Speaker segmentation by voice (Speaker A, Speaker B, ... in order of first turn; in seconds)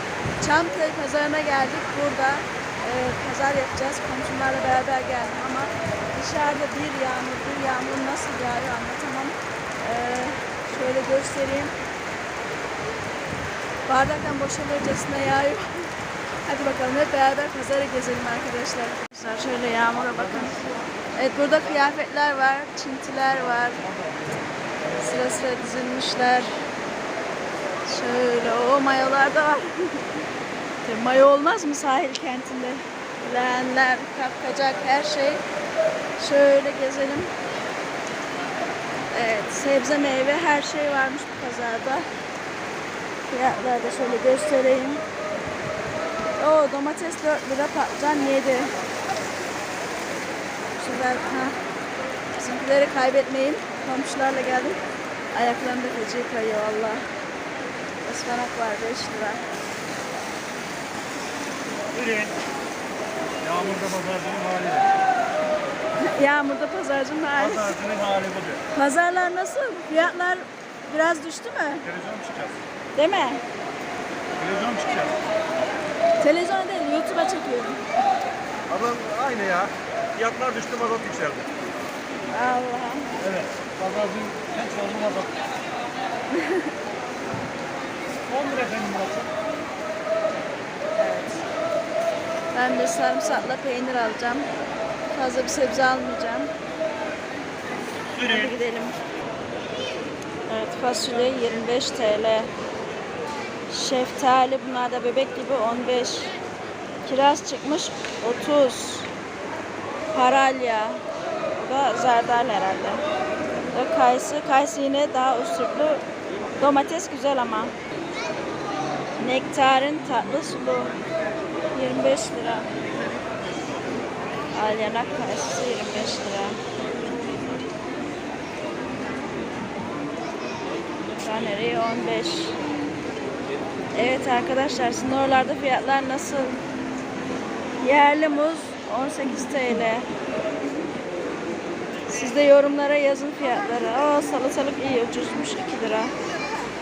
Speaker A: 0.4-11.7, 13.9-15.9, 16.5-20.6, 21.1-23.9, 24.9-26.6, 27.9-30.1, 30.8-35.4, 36.2-37.3, 39.1-42.1, 43.3-45.0, 46.4-48.8, 50.8-51.6, 52.3-54.8, 55.3-57.0, 58.0-59.5, 66.0-67.8, 68.7-71.9, 73.0-73.4, 76.2-77.8, 82.3-83.2, 86.3-86.7, 91.0-91.4, 92.5-94.5, 95.1-96.5, 98.2-99.0, 100.5-102.5, 103.7-106.3, 107.0-109.1, 110.1-111.0, 111.5-113.0, 113.7-116.0, 116.6-117.8, 119.2-121.0, 121.7-122.7, 124.5-126.6, 131.2-132.6, 133.9-136.6, 137.8-140.1, 142.1-146.1
Speaker B: 61.9-62.3, 63.4-64.9, 67.6-68.6, 71.9-72.6, 74.4-75.2, 78.7-81.5, 83.4-85.3, 88.3-89.3